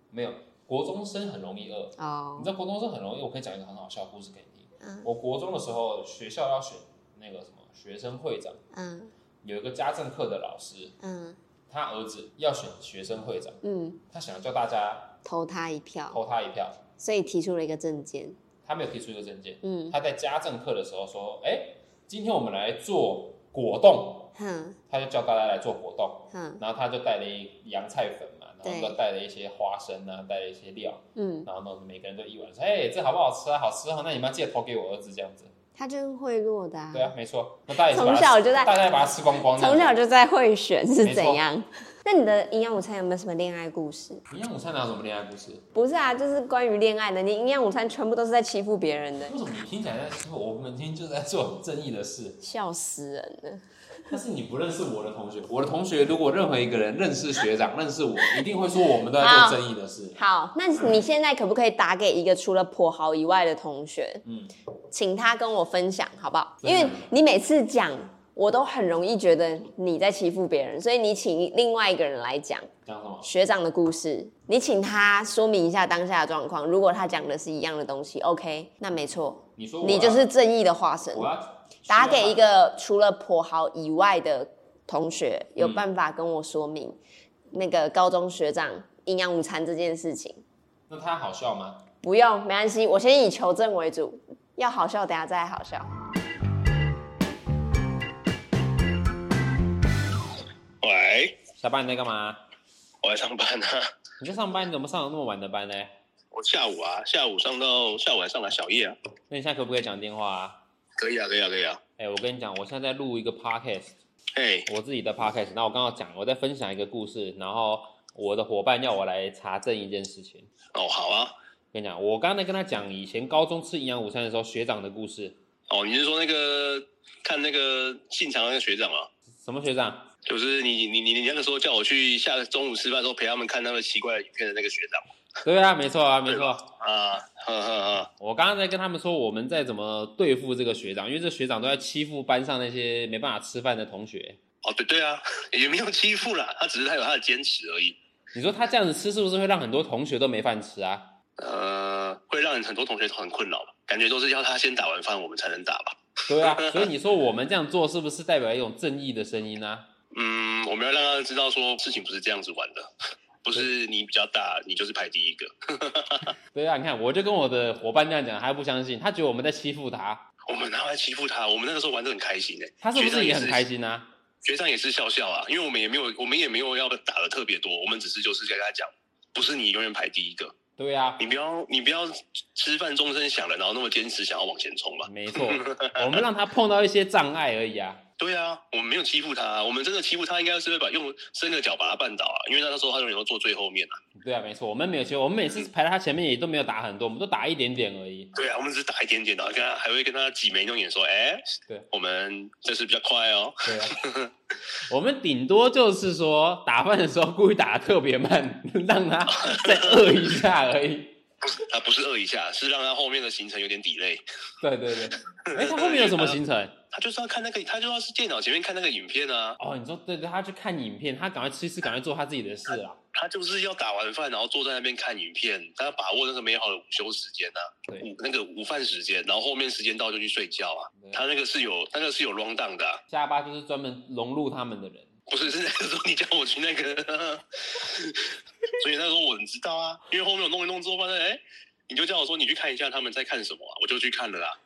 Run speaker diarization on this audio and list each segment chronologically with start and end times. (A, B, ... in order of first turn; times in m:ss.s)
0:00.1-0:08.6 A
0:02.0-0:02.5 B
0:04.8-0:05.1 B
0:08.7-0:09.1 B
0:09.4-0:11.0 A
0:11.0-0:11.4 B
0:11.7-0:15.2 A
0:13.6-0:14.0 B
0:15.2-0:16.2 B
0:16.1-0:16.8 A
0:17.0-0:18.4 B
0:18.6-0:24.3 A
0:19.6-0:20.0 B
0:24.4-0:24.8 B
0:24.9-0:35.5 A
0:26.3-0:26.6 B
0:28.6-0:28.9 B
0:31.2-0:31.5 B
0:35.8-0:37.1 B
0:36.9-0:40.0 A
0:37.7-0:38.8 B
0:39.4-0:44.2 B
0:41.0-0:41.4 A
0:44.3-0:45.7 A
0:45.7-0:49.4 B
0:49.2-0:52.4 A
0:52.4-0:54.1 B
0:54.1-1:00.2 A
0:59.0-0:59.6 B
1:00.1-1:04.2 B
1:04.2-1:04.5 A
1:04.9-1:12.7 B
1:06.6-1:07.1 A
1:12.8-1:13.3 A
1:13.2-1:21.3 B
1:19.6-1:20.3 A
1:21.1-1:22.4 A
1:21.9-1:27.0 B
1:25.6-1:25.8 A
1:27.5-1:30.4 B
1:30.9-1:31.8 A
1:32.0-1:35.9 B
1:40.8-1:41.4 C
1:41.6-1:42.4 A
1:43.0-1:43.9 C
1:44.2-1:45.9 A
1:46.3-1:49.0 C
1:49.3-1:50.6 A
1:51.0-1:51.8 C
1:52.0-1:53.9 A
1:54.3-1:54.7 C
1:54.7-2:00.5 A
2:00.7-2:01.3 C
2:01.7-2:05.4 A
2:05.7-2:09.1 C
2:09.4-2:10.1 A
2:10.2-2:15.0 C
2:15.4-2:16.7 A
2:16.3-2:18.1 C
2:18.2-2:24.4 A
2:24.6-2:28.0 C
2:28.3-2:31.1 A
2:31.4-2:36.9 C
2:36.3-2:39.9 A
2:40.1-2:42.9 C
2:43.4-2:46.4 C
2:46.5-2:50.2 A
2:50.4-2:53.6 C
2:52.8-2:54.1 A
2:54.4-3:00.5 C
3:00.8-3:01.3 A
3:01.2-3:06.2 C
3:05.0-3:08.0 A
3:08.2-3:14.0 C
3:14.1-3:18.3 A
3:18.3-3:24.3 C
3:23.6-3:24.0 A
3:24.9-3:31.2 A
3:29.3-3:30.0 C
3:31.4-3:34.2 C
3:34.6-3:36.8 A
3:35.3-3:36.4 C
3:36.9-3:39.6 C
3:39.6-3:43.0 A
3:43.1-3:53.0 C
3:50.9-3:51.3 A
3:53.1-3:55.1 A
3:55.3-4:04.6 C